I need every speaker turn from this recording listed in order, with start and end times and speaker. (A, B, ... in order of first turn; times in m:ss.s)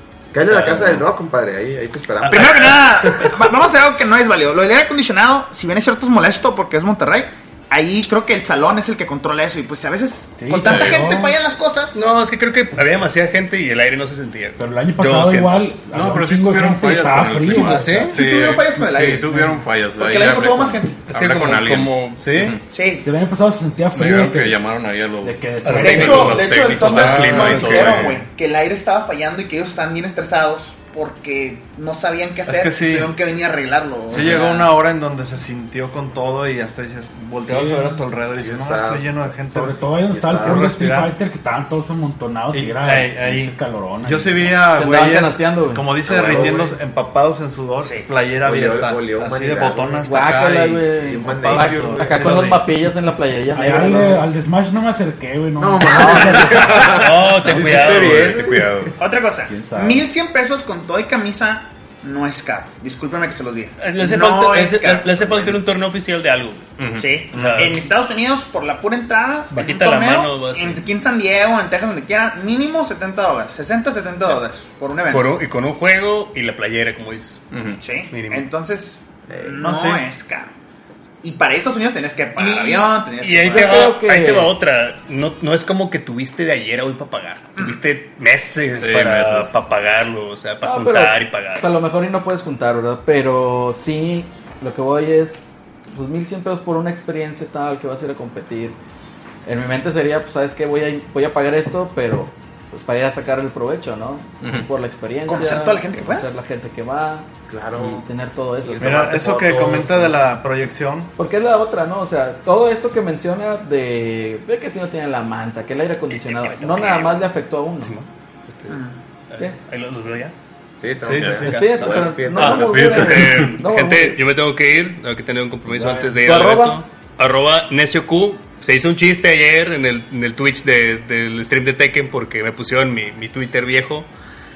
0:00.3-0:03.2 A
0:00.4-0:01.0 B
0:02.2-0:02.7 C
0:02.3-0:12.0 D
0:10.4-0:11.4 E
0:10.6-0:11.1 B
0:11.9-0:15.7 C
0:14.6-0:18.2 E
0:15.9-0:22.6 B
0:17.4-0:18.2 C
0:18.1-0:21.1 D
0:21.1-0:22.1 C
0:22.2-0:22.6 F
0:22.7-0:23.1 D
0:23.0-0:24.6 E
0:23.9-0:28.2 B
0:25.2-0:26.6 E
0:25.6-0:28.1 C
0:25.7-0:34.7 D
0:32.4-0:33.2 F
0:34.1-0:39.8 F
0:37.4-0:38.0 E
0:38.3-0:40.7 A
0:39.5-0:44.6 E
0:40.4-0:41.2 F
0:42.5-0:52.7 F
0:44.7-0:45.9 G
0:46.1-0:46.8 A
0:47.8-0:48.1 D
0:48.4-0:50.1 A
0:50.0-0:54.3 G
0:51.0-0:52.4 A
0:53.5-0:57.1 E
0:55.6-0:58.8 A
0:56.4-0:58.9 C
0:57.5-0:58.9 B
0:59.0-1:05.6 D
0:59.5-1:00.1 E
1:03.8-1:06.7 C
1:06.8-1:07.7 B
1:07.0-1:15.4 D
1:07.3-1:07.9 C
1:09.5-1:10.9 C
1:15.1-1:17.5 C
1:17.5-1:17.8 B
1:17.8-1:20.5 D
1:18.1-1:18.5 C
1:19.3-1:19.6 A
1:19.6-1:20.0 F
1:21.2-1:23.9 D
1:22.4-1:31.7 C
1:23.5-1:24.5 G
1:28.8-1:29.6 B
1:30.6-1:38.8 G
1:39.4-1:50.2 G
1:44.4-1:44.7 B
1:45.3-1:46.3 D
1:47.5-1:48.0 A
1:48.6-1:49.7 A
1:48.8-1:51.1 F
1:51.2-1:58.0 G
1:56.5-1:57.2 C
1:57.8-2:00.3 C
1:58.7-1:59.0 D
2:00.8-2:03.0 A
2:01.0-2:01.7 F
2:01.4-2:04.2 G
2:02.4-2:03.5 B
2:02.5-2:14.1 C
2:05.7-2:06.1 E
2:06.2-2:06.8 G